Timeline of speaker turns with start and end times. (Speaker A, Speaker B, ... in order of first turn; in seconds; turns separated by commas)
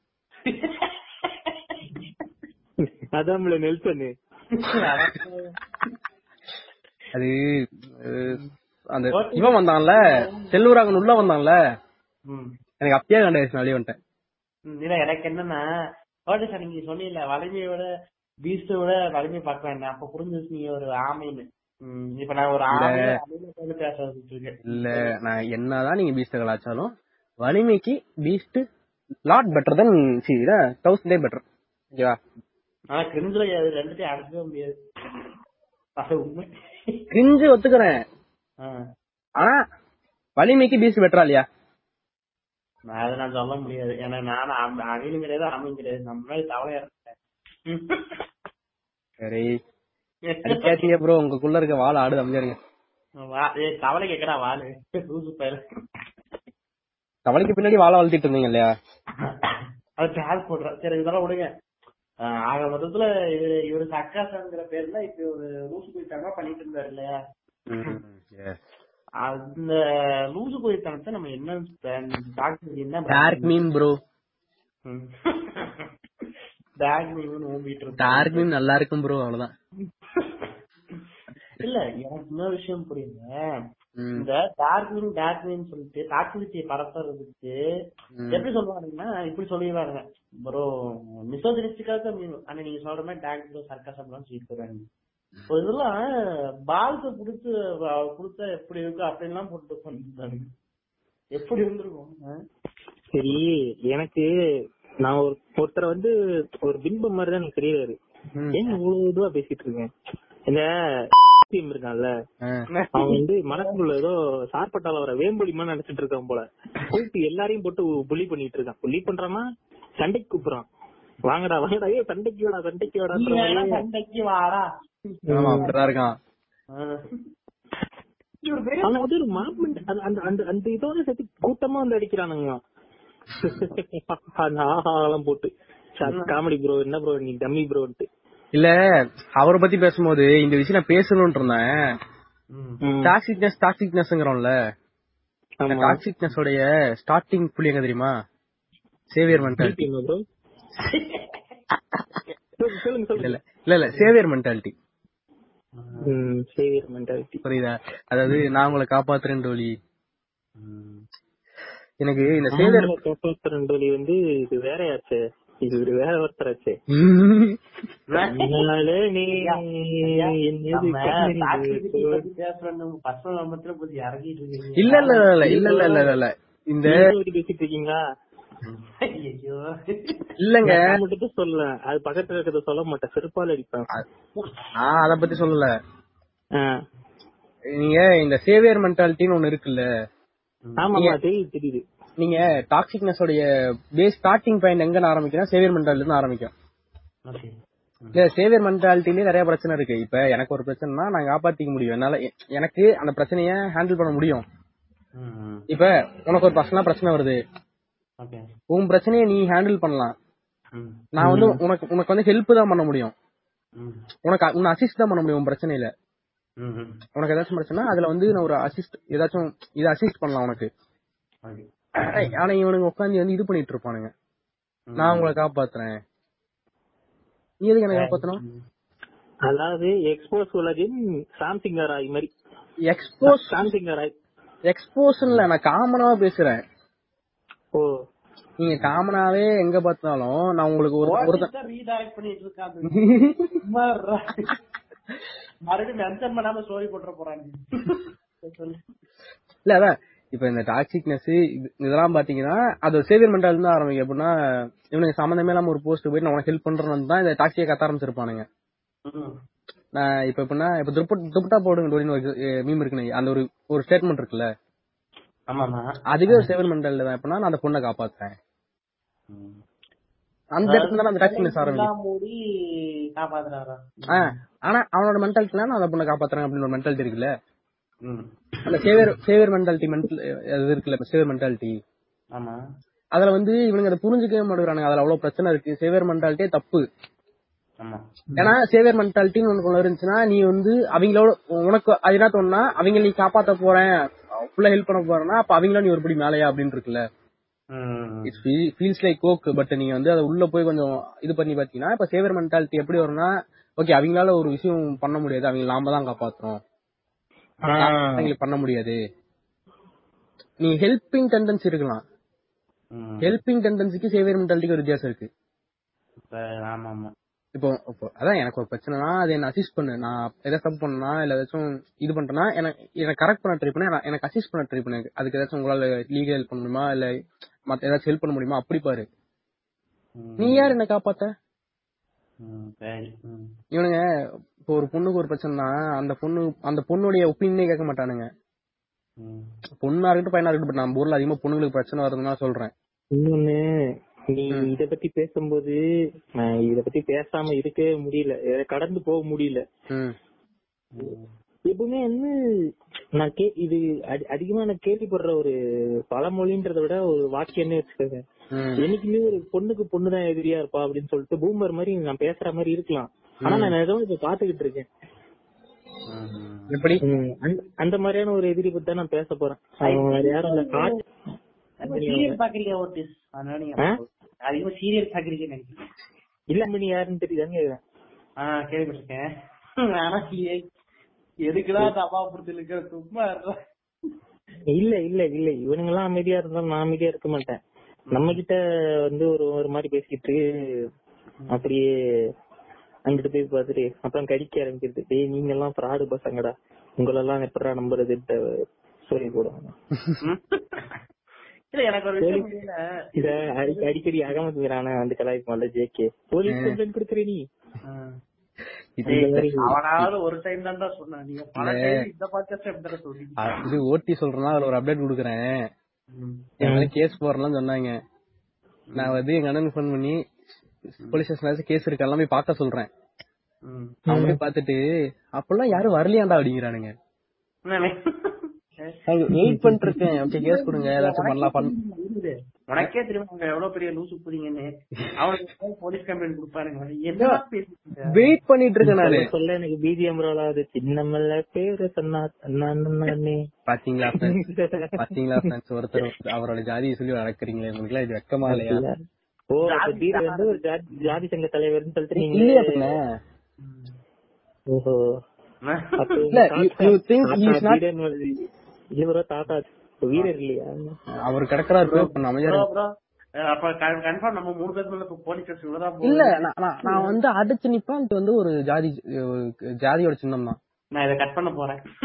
Speaker A: 0.5-0.9, Speaker B: 3.2-4.1, Speaker A: 4.5-5.5, Speaker C: 8.0-8.4, Speaker C: 8.9-11.6, Speaker A: 9.1-10.5, Speaker C: 12.8-13.9, Speaker A: 14.7-15.6, Speaker A: 16.3-17.9, Speaker A: 18.4-25.1, Speaker C: 22.7-23.2, Speaker C: 24.7-28.6, Speaker C: 29.3-31.4, Speaker A: 32.9-34.7, Speaker A: 36.0-37.1, Speaker C: 37.1-38.0, Speaker C: 40.4-41.5, Speaker A: 42.9-47.1, Speaker A: 47.7-48.1, Speaker C: 49.2-49.5, Speaker A: 50.3-50.9, Speaker C: 50.5-52.6, Speaker A: 53.2-55.6, Speaker C: 57.3-58.7, Speaker A: 59.2-61.5, Speaker A: 62.2-67.1, Speaker C: 67.7-68.0, Speaker A: 69.2-69.8, Speaker A: 70.3-73.6, Speaker C: 73.1-74.0, Speaker A: 74.9-75.9, Speaker A: 76.8-78.5, Speaker C: 78.0-79.5, Speaker A: 80.2-80.5, Speaker A: 81.6-83.3, Speaker C: 84.0-84.3, Speaker A: 84.2-87.5, Speaker C: 88.2-88.5, Speaker A: 88.3-94.8, Speaker A: 95.5-96.0, Speaker A: 96.7-100.5, Speaker A: 101.4-102.4, Speaker B: 103.1-104.3, Speaker B: 105.0-106.1, Speaker B: 106.6-108.0, Speaker B: 108.6-109.9, Speaker B: 111.5-112.1, Speaker A: 112.7-113.8, Speaker B: 113.0-119.4, Speaker B: 120.0-120.7, Speaker B: 121.3-123.8, Speaker A: 123.1-125.7, Speaker B: 125.3-125.7, Speaker C: 125.3-126.1, Speaker A: 126.8-127.2, Speaker A: 128.4-129.7, Speaker B: 128.8-132.6, Speaker B: 133.4-138.1, Speaker A: 136.1-136.3, Speaker C: 139.4-141.8, Speaker A: 142.5-142.8, Speaker B: 142.8-143.1, Speaker C: 143.1-144.5, Speaker B: 145.6-146.0, Speaker C: 145.7-148.1, Speaker C: 149.1-149.8, Speaker B: 149.6-150.2, Speaker A: 150.9-151.2, Speaker B: 152.6-153.4, Speaker C: 153.2-154.7, Speaker A: 155.8-156.1, Speaker B: 156.1-157.4, Speaker C: 157.4-159.7, Speaker A: 160.6-161.0, Speaker C: 162.0-162.9, Speaker B: 162.5-166.8, Speaker C: 166.9-167.6, Speaker A: 168.1-168.6, Speaker B: 168.3-172.2, Speaker A: 169.3-176.0, Speaker C: 174.8-177.0, Speaker B: 176.9-178.0, Speaker A: 178.7-180.2, Speaker C: 180.4-180.9, Speaker B: 180.7-183.9, Speaker A: 184.4-184.7, Speaker C: 184.8-185.7, Speaker C: 187.8-189.8, Speaker B: 190.8-191.8, Speaker C: 192.2-193.4, Speaker C: 194.0-196.5, Speaker C: 198.2-204.4, Speaker A: 205.2-205.7, Speaker C: 205.7-207.4, Speaker A: 208.2-208.5, Speaker C: 208.7-210.2, Speaker A: 210.8-211.6, Speaker C: 211.2-213.1, Speaker C: 214.3-215.9, Speaker A: 216.6-217.0, Speaker C: 217.2-220.7, Speaker A: 221.5-222.3, Speaker C: 222.1-224.1, Speaker A: 224.9-225.3, Speaker C: 225.0-226.0, Speaker C: 227.6-228.4, Speaker A: 227.9-228.6, Speaker B: 229.5-232.3, Speaker C: 232.9-233.7, Speaker B: 233.3-234.1, Speaker C: 234.7-236.6, Speaker C: 238.6-241.5, Speaker A: 241.0-244.5, Speaker C: 242.9-243.6, Speaker A: 245.7-248.8, Speaker C: 249.7-254.3, Speaker C: 254.9-258.4, Speaker C: 260.0-264.5, Speaker A: 265.5-266.5, Speaker C: 266.1-268.4, Speaker A: 269.3-269.6, Speaker C: 270.6-271.9, Speaker A: 270.7-272.4, Speaker A: 273.2-274.3, Speaker C: 274.1-277.3, Speaker C: 278.7-281.8, Speaker C: 283.1-286.8, Speaker C: 288.4-297.0, Speaker A: 297.8-298.4, Speaker C: 298.3-306.6, Speaker B: 307.7-308.3, Speaker C: 307.8-309.0, Speaker C: 310.6-312.0, Speaker A: 313.0-313.3, Speaker C: 313.2-315.3, Speaker A: 316.3-317.1, Speaker C: 317.6-327.1, Speaker C: 327.7-329.1, Speaker A: 330.2-330.8, Speaker C: 330.4-331.3, Speaker A: 332.4-333.5, Speaker C: 333.7-334.0, Speaker C: 334.7-338.3, Speaker A: 339.2-339.5, Speaker C: 339.8-342.7, Speaker B: 343.1-343.6, Speaker B: 344.3-345.8, Speaker B: 346.4-349.6, Speaker C: 349.9-350.2, Speaker A: 351.0-351.3, Speaker B: 351.7-352.3, Speaker B: 353.2-355.5, Speaker B: 356.1-358.2, Speaker C: 358.5-358.8, Speaker B: 358.8-364.9, Speaker C: 363.5-363.7, Speaker A: 366.1-366.7, Speaker C: 366.7-367.0, Speaker B: 367.0-370.9, Speaker A: 369.8-370.9, Speaker A: 371.8-375.8, Speaker B: 371.9-372.4, Speaker B: 376.5-377.8, Speaker A: 378.4-379.2, Speaker A: 380.0-380.6, Speaker A: 381.5-383.6, Speaker B: 384.8-387.6, Speaker A: 388.1-388.4, Speaker B: 388.1-390.4, Speaker B: 391.5-391.9, Speaker B: 393.1-398.4, Speaker B: 399.1-399.6, Speaker A: 400.2-401.0, Speaker A: 401.7-404.3, Speaker B: 402.2-402.5, Speaker B: 403.2-407.4, Speaker C: 406.5-406.8, Speaker C: 409.0-409.4, Speaker A: 409.1-413.6, Speaker B: 409.1-409.7, Speaker C: 411.6-411.9, Speaker C: 413.4-415.5, Speaker A: 416.1-416.4, Speaker C: 416.6-417.9, Speaker B: 416.6-416.9, Speaker A: 418.9-419.2, Speaker C: 419.0-420.2, Speaker C: 421.1-422.9, Speaker A: 423.7-424.0, Speaker C: 424.1-424.8, Speaker B: 424.1-424.4, Speaker C: 425.4-426.9, Speaker A: 427.7-429.0, Speaker C: 429.1-431.7, Speaker B: 429.4-429.8, Speaker A: 430.3-438.3, Speaker C: 438.1-439.3, Speaker B: 438.9-443.4, Speaker C: 443.7-444.4, Speaker B: 444.2-445.0, Speaker C: 445.0-448.8, Speaker B: 448.5-448.9, Speaker B: 449.5-452.8, Speaker A: 449.7-451.2, Speaker C: 452.2-453.0, Speaker A: 453.6-453.9, Speaker B: 454.7-455.1, Speaker A: 455.7-456.2, Speaker B: 456.0-458.3, Speaker C: 456.4-457.8, Speaker B: 459.0-460.9, Speaker C: 461.2-462.6, Speaker A: 461.9-462.9, Speaker A: 463.4-467.2, Speaker C: 466.1-470.6, Speaker A: 471.0-471.8